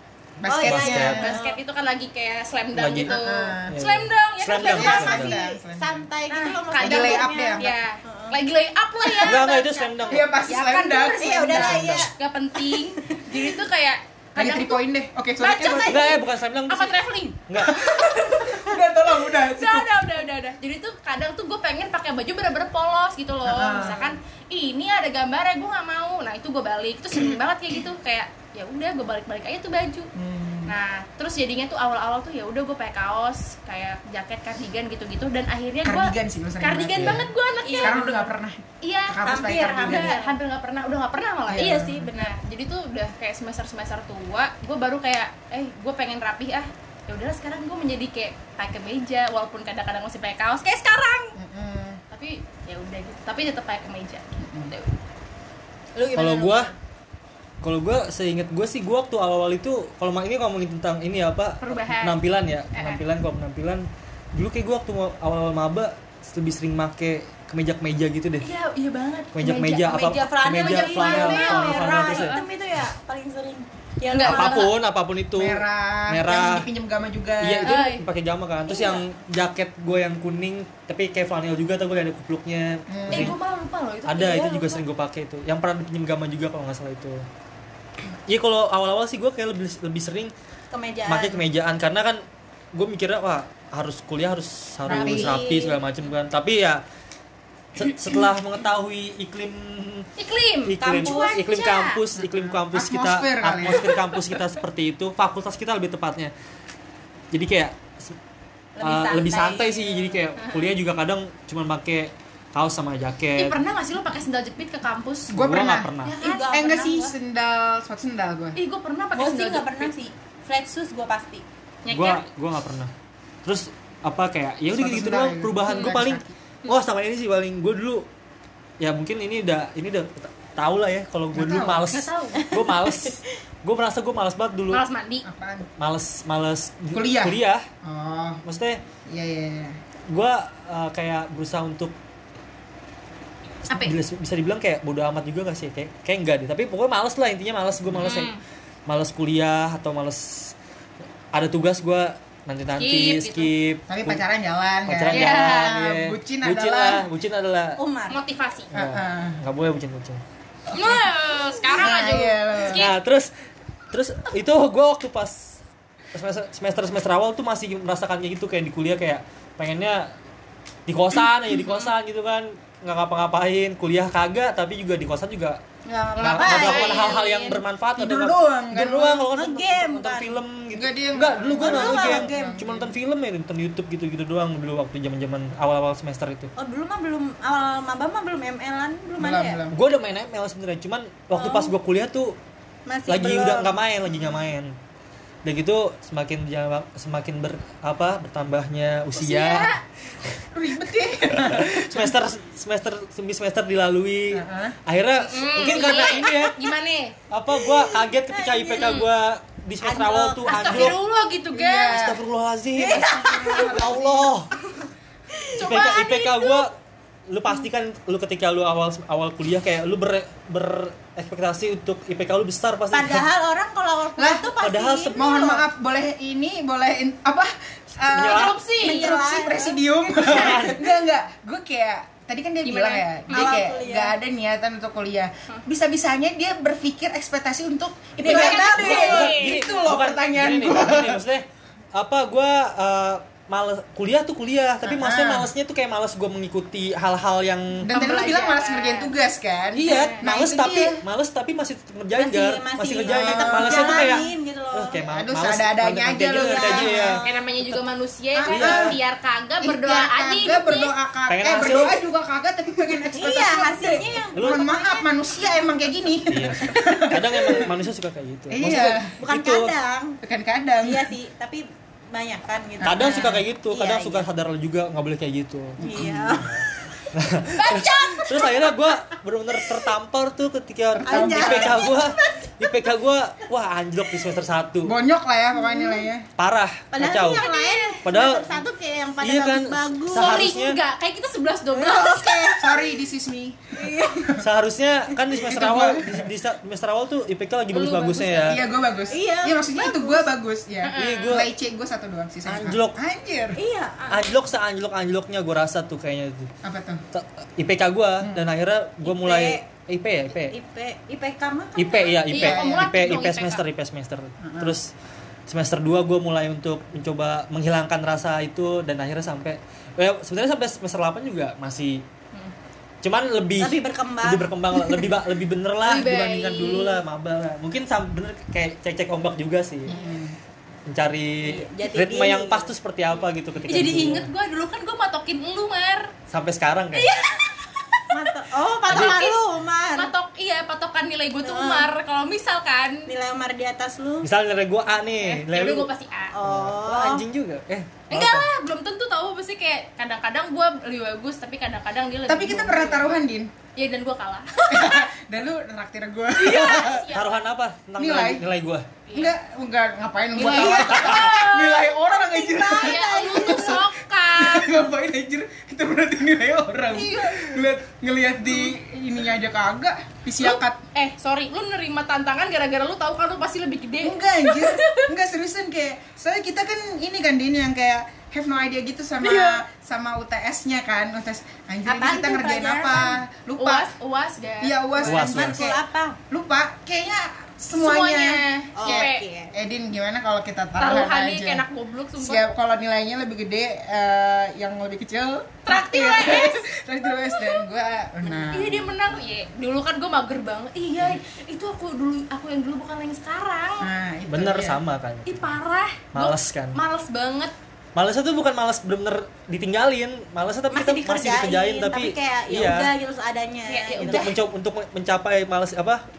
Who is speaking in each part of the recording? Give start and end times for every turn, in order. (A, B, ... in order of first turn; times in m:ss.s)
0:00.4-0:01.4 A
0:00.4-0:01.6 B
0:00.6-0:01.3 C
0:00.8-0:05.2 D
0:02.7-0:03.2 C
0:03.0-0:03.7 A
0:03.7-0:05.3 C
0:04.6-0:08.4 B
0:04.6-0:06.0 A
0:06.3-0:14.8 D
0:06.8-0:07.7 A
0:09.0-0:09.4 B
0:09.2-0:10.3 C
0:10.1-0:12.1 A
0:11.2-0:13.5 B
0:11.5-0:12.1 C
0:14.3-0:16.1 A
0:15.4-0:30.1 D
0:15.8-0:17.9 C
0:17.6-0:20.0 A
0:23.4-0:24.2 A
0:30.1-0:30.7 A
0:30.6-0:51.4 D
0:35.8-0:40.2 A
0:36.9-0:37.2 C
0:37.6-0:38.1 B
0:39.2-0:40.4 B
0:41.5-0:42.1 A
0:51.4-0:52.0 A
0:52.1-0:54.9 D
0:54.4-0:54.7 A
0:56.0-0:56.7 B
0:56.2-0:56.7 C
0:57.6-1:08.5 C
1:01.6-1:02.2 D
1:02.7-1:03.0 D
1:08.4-1:12.4 D
1:09.3-1:12.3 C
1:10.2-1:14.7 B
1:14.1-1:14.7 D
1:14.2-1:16.6 C
1:15.3-1:17.8 A
1:17.4-1:23.4 C
1:17.6-1:18.0 D
1:22.9-1:23.4 A
1:23.1-1:24.8 D
1:24.0-1:27.2 C
1:28.3-1:30.3 C
1:30.7-1:31.4 B
1:31.1-1:32.2 C
1:32.7-1:36.8 C
1:34.8-1:35.4 A
1:34.9-1:35.8 B
1:37.7-1:40.1 C
1:40.2-1:42.0 D
1:40.6-1:46.3 C
1:40.8-1:41.4 B
1:42.2-1:43.9 A
1:47.3-1:48.2 C
1:48.8-1:50.1 B
1:48.8-1:53.6 C
1:50.4-1:50.7 D
1:53.4-1:55.4 D
1:55.3-1:55.9 A
1:55.3-1:56.2 C
1:56.0-1:57.0 D
1:56.2-1:57.1 B
1:56.5-1:58.6 A
1:58.6-1:59.9 D
1:59.1-2:01.4 B
2:01.8-2:02.2 D
2:01.9-2:02.9 C
2:03.4-2:08.0 C
2:04.7-2:06.3 A
2:05.7-2:05.9 D
2:08.8-2:14.8 C
2:11.3-2:11.8 A
2:11.9-2:12.5 D
2:12.4-2:13.2 B
2:14.7-2:15.2 D
2:15.2-2:15.7 A
2:15.8-2:17.6 C
2:16.9-2:18.4 A
2:18.4-2:18.8 C
2:19.1-2:19.8 A
2:20.1-2:21.9 C
2:23.6-2:28.3 C
2:23.7-2:23.9 D
2:28.0-2:28.4 D
2:28.9-2:30.5 C
2:31.3-2:34.2 C
2:32.8-2:33.5 D
2:33.9-2:37.0 A
2:34.9-2:37.8 C
2:35.1-2:35.7 D
2:37.8-2:38.2 B
2:38.1-2:38.7 D
2:38.7-2:39.4 A
2:38.7-2:40.2 C
2:40.7-2:41.0 A
2:40.7-2:42.9 D
2:41.7-2:42.9 A
2:42.7-2:43.3 C
2:43.9-2:45.6 C
2:46.1-2:50.1 C
2:50.9-2:55.6 C
2:55.8-2:57.6 B
2:56.2-3:06.5 C
2:56.4-2:56.6 A
2:56.4-2:57.2 D
2:58.0-2:59.3 A
2:59.3-3:00.4 B
3:00.7-3:02.9 A
3:01.6-3:02.6 B
3:06.6-3:09.6 B
3:09.2-3:09.8 A
3:09.7-3:12.4 C
3:11.3-3:11.7 B
3:12.9-3:13.7 B
3:13.1-3:14.7 C
3:15.4-3:19.8 C
3:19.1-3:19.8 D
3:20.5-3:22.1 A
3:21.3-3:26.7 C
3:24.3-3:24.8 A
3:25.2-3:27.1 D
3:25.7-3:26.4 B
3:27.3-3:31.0 C
3:27.5-3:29.0 B
3:28.8-3:29.1 D
3:29.8-3:30.9 B
3:30.4-3:32.0 D
3:31.5-3:32.2 A
3:31.9-3:34.5 C
3:32.8-3:33.9 B
3:32.9-3:34.3 A
3:35.3-3:35.9 B
3:35.6-3:36.6 D
3:35.6-3:36.7 C
3:37.3-3:43.3 C
3:42.9-3:45.6 B
3:44.2-3:44.5 A
3:44.6-3:45.3 C
3:45.1-4:01.2 A
3:48.1-3:48.6 C
3:48.2-3:49.2 D
3:48.8-3:49.8 B
3:50.1-3:50.8 C
3:50.4-3:50.6 D
3:52.6-3:53.6 D
3:53.3-3:54.1 B
3:58.2-3:59.3 B
3:58.2-3:59.6 D
3:58.2-4:07.9 C
4:04.8-4:05.5 A
4:07.8-4:11.0 A
4:07.9-4:09.1 D
4:09.7-4:17.8 C
4:09.8-4:10.2 D
4:12.2-4:15.0 B
4:13.1-4:14.2 A
4:15.1-4:17.2 A
4:16.3-4:17.4 B
4:17.2-4:20.9 D
4:18.3-4:19.0 A
4:18.5-4:19.0 C
4:19.6-4:27.7 A
4:21.3-4:22.0 C
4:23.1-4:25.1 B
4:24.4-4:24.6 C
4:26.3-4:29.7 C
4:28.5-4:29.1 A
4:29.2-4:30.2 B
4:30.2-4:31.1 A
4:30.8-4:34.2 B
4:32.8-4:33.4 A
4:32.8-4:44.9 C
4:35.8-4:37.0 B
4:35.8-4:36.4 A
4:37.6-4:38.7 D
4:40.9-4:41.9 A
4:41.0-4:42.8 B
4:44.8-4:46.2 A
4:45.7-4:46.0 B
4:46.4-4:47.4 C
4:46.9-4:50.4 B
4:47.3-4:48.0 D
4:48.0-4:48.5 C
4:49.2-4:50.8 C
4:50.1-4:52.5 D
4:51.7-4:52.8 B
4:52.6-4:54.4 A
4:53.7-4:54.4 B
4:54.4-4:58.6 C
4:55.3-4:56.3 A
4:57.7-4:58.6 D
4:58.4-5:03.6 A
4:59.1-5:00.3 B
5:00.8-5:01.4 D
5:01.0-5:01.5 C
5:02.4-5:03.0 C
5:03.6-5:04.3 B
5:04.1-5:06.5 C
5:06.6-5:07.0 A
5:07.1-5:10.5 C
5:08.2-5:08.5 A
5:09.0-5:09.6 B
5:10.3-5:12.3 B
5:11.8-5:14.9 C
5:12.3-5:13.6 D
5:12.3-5:12.9 A
5:14.4-5:14.8 A
5:15.5-5:22.0 C
5:23.0-5:29.9 C
5:23.6-5:25.0 B
5:25.8-5:27.0 D
5:29.9-5:30.4 A
5:30.9-5:34.3 C
5:31.4-5:32.7 B
5:33.7-5:36.1 D
5:36.3-5:37.1 C
5:36.9-5:38.3 D
5:38.1-5:40.1 B
5:38.8-5:39.4 D
5:38.9-5:39.2 C
5:39.9-5:43.1 D
5:41.4-5:41.9 B
5:43.1-5:44.3 B
5:44.2-5:45.9 C
5:45.2-5:46.3 D
5:46.3-5:47.2 B
5:46.4-5:48.5 C
5:48.1-5:53.2 D
5:52.3-5:53.5 A
5:53.7-5:55.1 D
5:54.7-5:57.0 A
5:56.4-5:57.4 D
5:56.5-5:58.8 C
5:58.0-5:58.4 A
5:59.1-5:59.3 D
5:59.1-6:10.8 A
6:00.4-6:01.2 B
6:00.4-6:04.7 D
6:00.9-6:01.4 C
6:02.3-6:03.8 B
6:10.4-6:15.1 D
6:14.0-6:23.9 A
6:19.2-6:19.6 D
6:21.8-6:23.2 B
6:23.6-6:25.3 D
6:24.6-6:31.6 A
6:25.0-6:25.6 C
6:25.3-6:26.2 B
6:27.7-6:29.2 D
6:28.7-6:29.5 B
6:30.8-6:32.4 D
6:32.2-6:38.9 A
6:35.6-6:37.6 D
6:38.2-6:38.5 B
6:38.5-6:43.9 D
6:43.8-6:44.8 A
6:44.3-6:45.6 C
6:45.2-6:47.5 D
6:46.1-6:46.8 C
6:48.0-6:52.9 C
6:50.7-6:54.3 B
6:53.7-6:54.3 D
6:54.0-6:56.0 C